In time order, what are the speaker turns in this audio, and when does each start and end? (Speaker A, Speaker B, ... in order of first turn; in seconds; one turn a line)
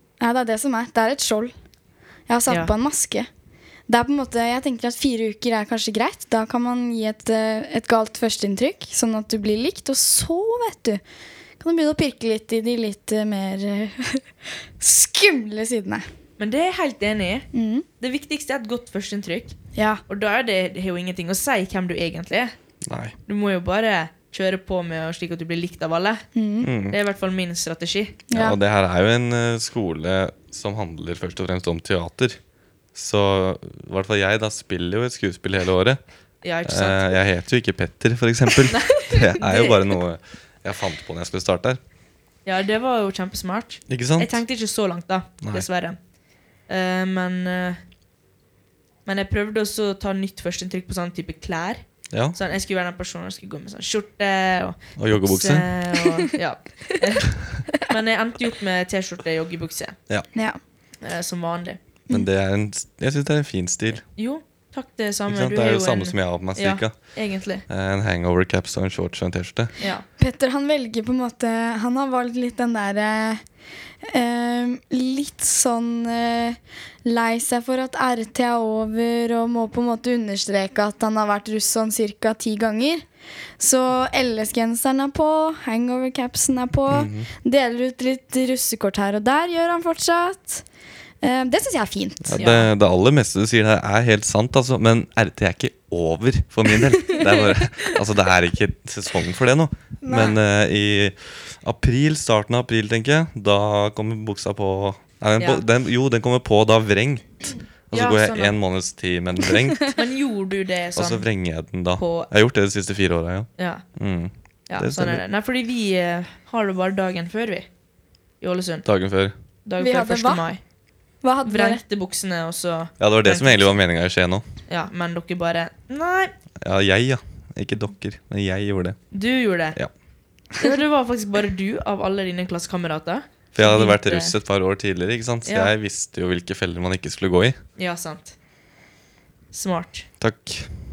Speaker A: 0.2-1.5
Speaker A: 2.3-3.3
Speaker A: 3.9-11.0
Speaker A: 11.6-14.2
Speaker A: 14.8-16.1
Speaker B: 16.4-17.5
Speaker A: 17.5-17.9
Speaker B: 18.0-19.6
Speaker A: 19.8-20.0
Speaker B: 20.1-22.6
Speaker C: 22.9-23.1
Speaker B: 23.3-26.2
Speaker A: 26.4-26.7
Speaker C: 26.6-27.0
Speaker B: 26.9-28.2
Speaker A: 28.3-28.6
Speaker C: 28.3-32.4
Speaker C: 33.0-36.0
Speaker B: 36.4-37.1
Speaker C: 36.6-41.8
Speaker B: 38.7-39.9
Speaker B: 42.5-46.0
Speaker C: 43.9-44.4
Speaker B: 46.7-47.8
Speaker B: 49.1-60.0
Speaker C: 55.0-55.7
Speaker B: 61.0-61.8
Speaker C: 62.1-64.0
Speaker B: 64.2-67.7
Speaker C: 65.3-67.0
Speaker C: 67.7-69.8
Speaker B: 69.8-70.0
Speaker A: 70.2-73.4
Speaker A: 74.0-83.0
Speaker A: 83.6-90.6
Speaker C: 86.9-87.3
Speaker A: 91.2-92.4
Speaker C: 92.2-110.0
Speaker B: 92.3-92.7
Speaker A: 97.1-97.4
Speaker A: 100.0-100.4
Speaker B: 105.4-105.6
Speaker B: 107.9-108.6
Speaker B: 109.9-111.3
Speaker C: 111.0-115.2
Speaker B: 112.0-112.3
Speaker B: 113.6-113.8
Speaker B: 114.7-117.7
Speaker B: 118.4-118.9
Speaker C: 118.8-119.3
Speaker B: 119.7-120.6
Speaker A: 119.8-120.4
Speaker A: 121.2-121.8
Speaker B: 121.4-123.8
Speaker C: 123.0-124.4
Speaker B: 124.7-126.3
Speaker C: 126.6-129.0
Speaker B: 129.1-129.8
Speaker B: 130.6-134.4
Speaker C: 133.5-137.6
Speaker B: 135.4-135.7
Speaker B: 137.8-138.4
Speaker B: 139.5-140.1
Speaker C: 140.2-140.7